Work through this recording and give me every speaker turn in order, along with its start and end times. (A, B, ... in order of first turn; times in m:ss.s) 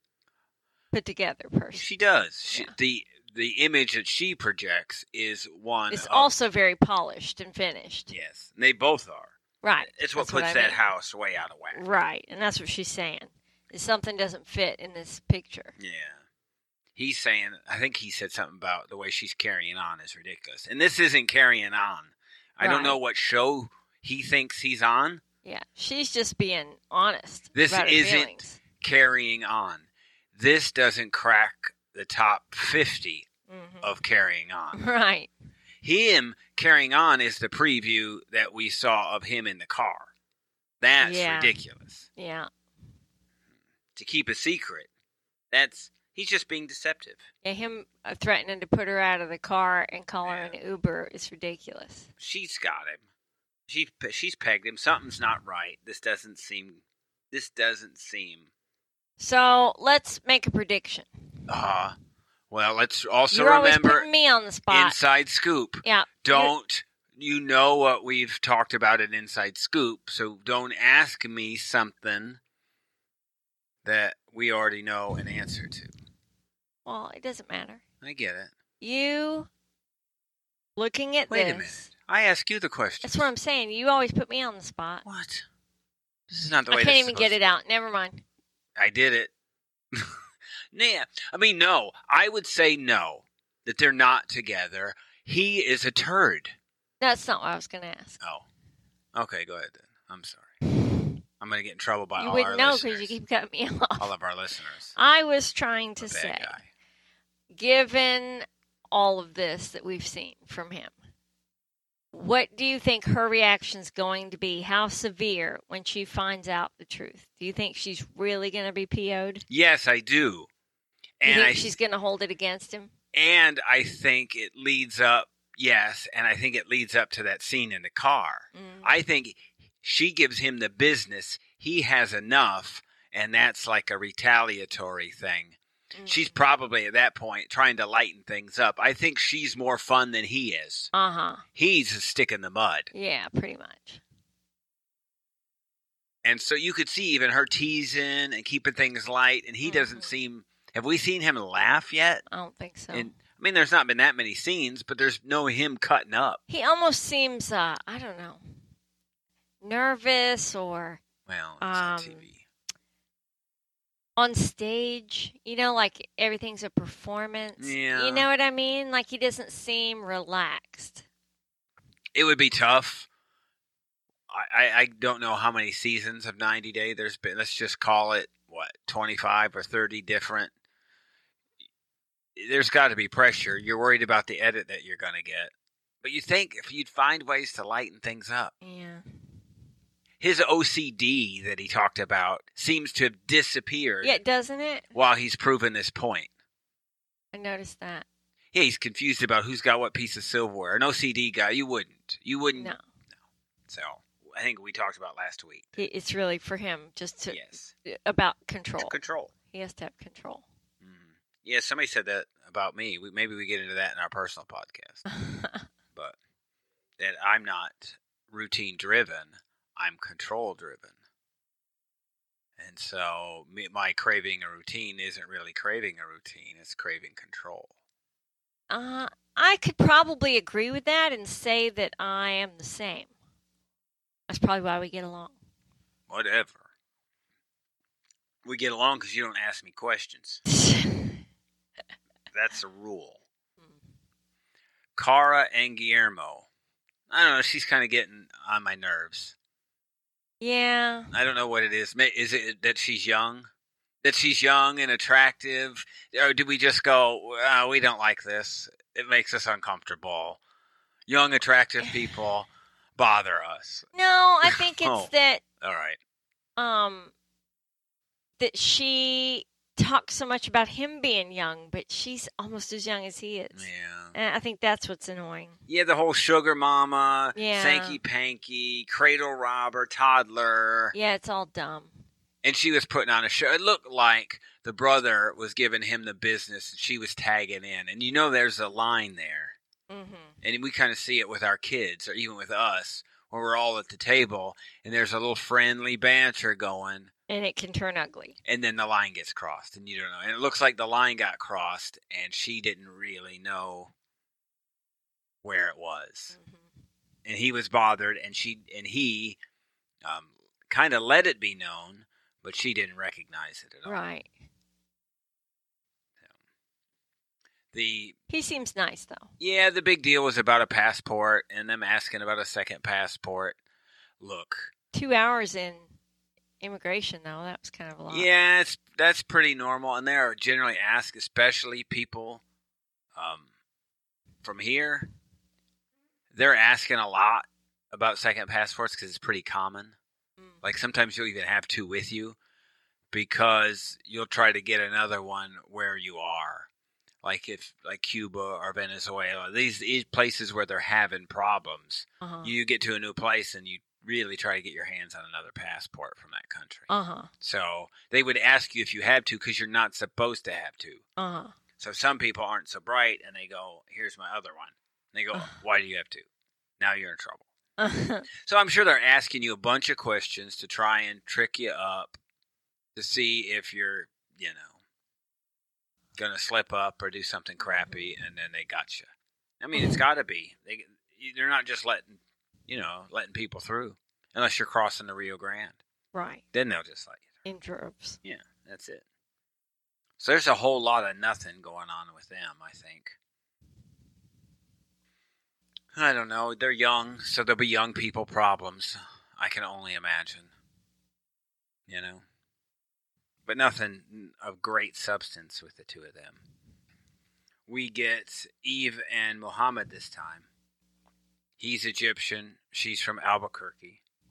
0:00.9-0:01.8 A
0:01.7-0:06.3 B
0:05.9-0:08.1 A
0:08.1-0:09.4 B
0:09.6-0:10.8 A
0:09.9-0:11.8 B
0:11.7-0:15.8 A
0:15.8-0:16.2 B
0:17.0-0:25.2 B
0:22.6-0:23.0 A
0:25.4-0:28.6 A
0:27.5-0:33.3 B
0:33.5-0:33.9 A
0:33.8-0:34.8 B
0:34.7-0:35.3 A
0:35.8-0:40.1 B
0:40.8-0:42.1 B
0:41.0-0:41.6 A
0:42.2-0:42.5 A
0:44.0-0:44.9 B
0:45.5-0:47.2 B
0:47.4-0:52.1 A
0:50.2-0:50.5 B
0:52.2-0:53.0 B
0:53.7-0:58.4 B
0:59.2-1:01.3 A
1:01.5-1:02.0 B
1:02.5-1:04.1 B
1:03.3-1:05.0 A
1:04.7-1:12.4 B
1:05.8-1:06.5 A
1:13.8-1:15.9 B
1:16.8-1:17.8 A
1:18.0-1:18.5 B
1:18.8-1:19.5 A
1:20.8-1:21.8 A
1:21.3-1:23.3 B
1:23.0-1:25.0 A
1:25.0-1:25.5 B
1:26.3-1:27.5 B
1:26.7-1:28.2 A
1:28.8-1:29.3 B
1:30.7-1:36.5 B
1:37.0-1:38.2 A
1:38.2-1:38.5 B
1:39.1-1:40.6 B
1:41.4-1:43.2 B
1:42.2-1:44.1 A
1:44.0-1:45.0 B
1:45.0-1:46.5 A
1:46.0-1:46.7 B
1:47.5-1:50.9 A
1:52.1-1:59.4 A
1:59.5-2:00.5 B
2:01.2-2:01.7 B
2:01.2-2:02.9 A
2:03.1-2:20.9 B
2:08.5-2:08.9 A
2:16.0-2:16.4 A
2:20.9-2:21.4 A
2:21.6-2:22.9 B
2:22.9-2:24.0 A
2:26.2-2:32.2 B
2:29.6-2:30.1 A
2:32.3-2:33.1 A
2:32.9-2:36.4 B
2:36.5-2:38.4 A
2:39.6-2:41.0 A
2:41.3-2:42.4 B
2:41.6-2:42.2 A
2:44.2-2:51.0 A
2:47.6-2:48.3 B
2:52.1-2:53.1 B
2:54.3-3:00.5 B
3:02.4-3:08.5 B
3:08.6-3:09.0 A
3:10.2-3:14.2 B
3:14.0-3:14.9 A
3:14.9-3:16.3 B
3:17.3-3:18.1 A
3:18.5-3:22.7 B
3:23.7-3:25.9 B
3:25.8-3:28.9 A
3:27.3-3:27.7 B
3:28.8-3:29.3 B
3:29.5-3:30.4 A
3:30.8-3:35.0 B
3:35.1-3:35.7 A
3:37.0-3:40.9 B
3:42.6-3:47.7 B
3:48.7-3:53.1 A
3:54.3-3:55.4 A
3:56.1-3:56.6 B
3:58.4-4:00.4 B
4:00.5-4:01.2 A
4:02.3-4:03.2 B
4:05.0-4:06.5 B
4:07.1-4:09.4 B
4:10.4-4:11.1 A
4:11.1-4:13.5 B
4:14.0-4:20.4 B
4:21.1-4:23.9 B
4:23.9-4:25.4 A
4:24.4-4:26.0 B
4:26.6-4:27.1 A
4:28.4-4:35.6 A
4:33.5-4:34.2 B
4:35.7-4:41.0 B
4:37.4-4:38.0 A
4:40.9-4:42.0 A
4:42.4-4:49.6 B
4:49.9-4:50.4 A
4:50.4-4:57.1 B
4:57.3-4:58.4 A
4:58.4-5:03.9 B
5:05.4-5:06.4 B
5:06.3-5:06.6 A
5:07.3-5:09.4 B
5:10.0-5:14.1 B
5:13.9-5:14.3 A
5:17.7-5:18.2 B
5:18.3-5:19.3 A
5:19.4-5:23.6 B
5:24.2-5:24.7 B
5:24.9-5:25.9 A
5:26.6-5:28.3 A
5:28.1-5:32.4 B
5:33.2-5:33.5 B
5:34.4-5:35.1 B
5:36.3-5:40.0 B
5:40.6-5:42.4 B
5:43.1-5:46.7 B
5:47.2-5:56.9 B
5:52.2-5:52.5 A
5:56.9-5:57.3 A
5:57.4-6:01.0 B
6:01.2-6:01.6 A
6:01.8-6:06.3 B
6:06.8-6:07.5 B
6:07.8-6:08.3 A
6:08.4-6:12.2 B
6:13.0-6:14.7 B
6:16.2-6:19.1 B
6:17.6-6:18.1 A
6:19.6-6:25.8 B
6:26.1-6:26.4 A
6:26.5-6:27.3 B
6:27.4-6:28.2 A
6:28.2-6:29.0 B
6:30.2-6:33.2 B
6:35.9-6:40.5 B
6:41.9-6:42.2 B
6:43.5-6:46.4 B
6:47.7-6:50.5 B
6:51.6-6:54.0 B